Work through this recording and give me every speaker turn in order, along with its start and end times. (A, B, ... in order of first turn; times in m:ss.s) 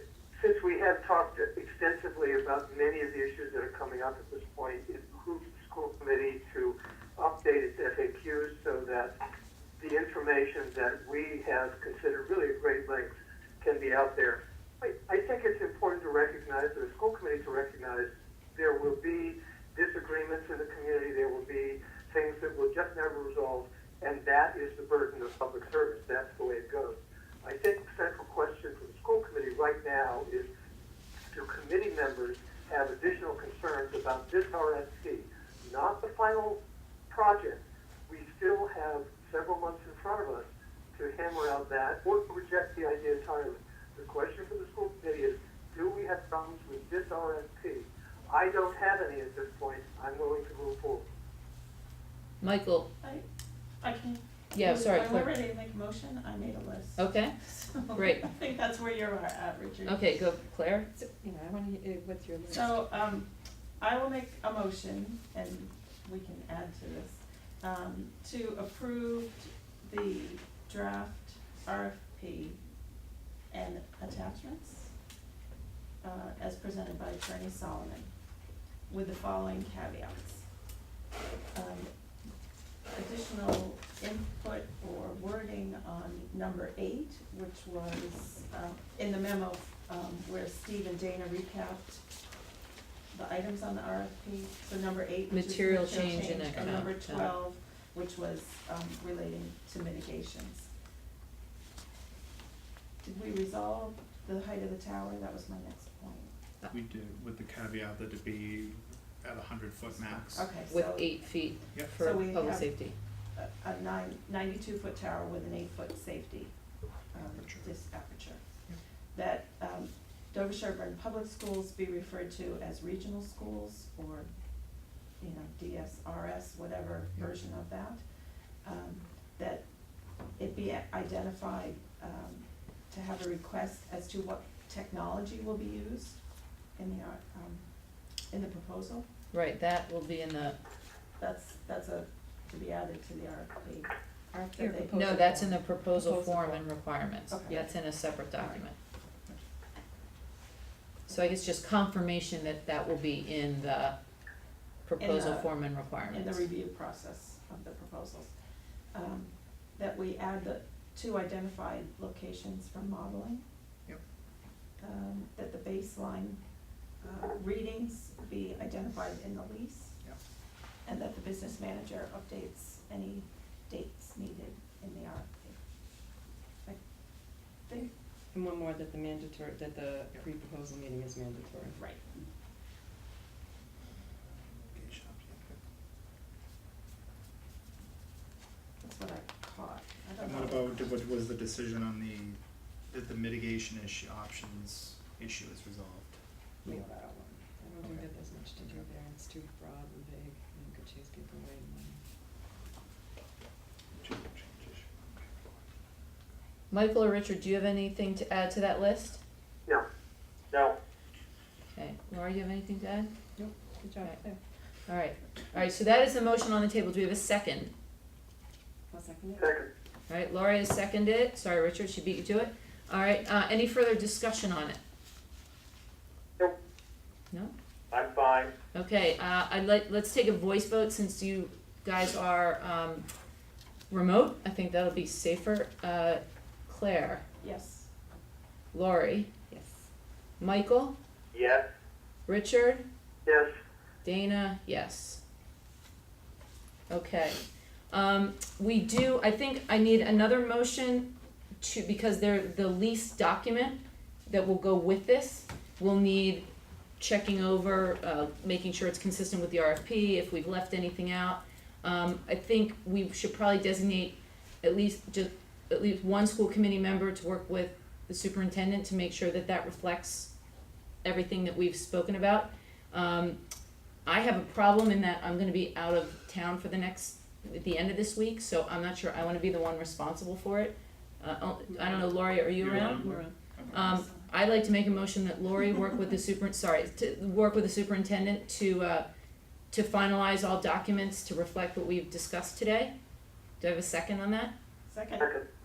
0:00.4-0:09.1 A
0:09.8-0:30.5 A
0:31.3-0:36.6 A
0:37.1-0:51.0 A
0:52.4-0:52.9 B
0:53.0-0:53.2 C
0:53.8-1:00.0 C
0:54.5-0:55.3 B
0:57.0-0:57.4 B
0:57.9-0:58.2 B
0:59.8-1:00.9 B
1:00.9-1:02.8 D
1:02.5-1:12.6 C
1:13.5-1:14.9 C
1:16.0-1:18.1 C
1:18.9-1:20.5 C
1:21.5-1:21.9 C
1:22.9-1:32.0 C
1:33.1-1:40.7 C
1:35.3-1:37.3 B
1:43.0-1:46.3 C
1:46.7-1:50.5 E
1:50.3-1:51.2 C
1:50.7-1:52.9 B
1:52.0-1:52.7 C
1:53.3-1:56.5 C
1:57.1-1:58.4 C
1:57.3-1:57.7 E
1:59.1-2:04.3 C
2:05.2-2:08.0 C
2:08.6-2:09.6 C
2:10.4-2:16.2 C
2:16.8-2:17.6 C
2:18.3-2:19.1 C
2:19.3-2:20.6 B
2:21.2-2:23.9 C
2:24.3-2:26.6 D
2:24.5-2:25.2 C
2:24.9-2:28.7 B
2:27.3-2:27.6 C
2:31.1-2:34.0 B
2:34.8-2:36.4 B
2:35.0-2:35.5 C
2:36.1-2:38.3 C
2:38.9-2:43.4 C
2:44.8-2:46.4 C
2:47.0-2:50.0 C
2:50.8-2:55.6 C
2:58.3-3:01.8 D
3:01.7-3:02.0 C
3:04.2-3:05.6 E
3:08.8-3:10.8 C
3:10.2-3:16.8 E
3:16.7-3:17.3 C
3:17.6-3:22.0 D
3:17.8-3:18.9 E
3:24.0-3:24.9 E
3:26.7-3:29.2 B
3:31.7-3:33.1 B
3:33.4-3:34.4 D
3:34.9-3:37.7 B
3:38.9-3:39.5 D
3:39.4-3:39.7 A
3:40.1-3:44.8 B
3:47.9-3:48.5 A
3:48.7-3:53.1 B
3:53.9-3:57.2 B
3:57.4-3:57.9 C
3:58.7-3:59.3 B
3:59.5-3:59.8 D
4:00.4-4:00.9 B
4:02.3-4:02.8 B
4:03.2-4:03.5 A
4:04.0-4:05.2 B
4:06.9-4:11.1 B
4:11.6-4:16.5 B
4:17.0-4:30.3 B
4:31.0-4:33.4 B
4:34.0-4:43.2 B
4:41.7-4:42.0 D
4:42.6-4:43.9 E
4:42.7-4:43.3 D
4:43.7-4:44.3 C
4:43.7-4:49.0 B
4:49.7-4:52.9 B
4:53.6-4:54.5 B
4:54.9-4:55.3 C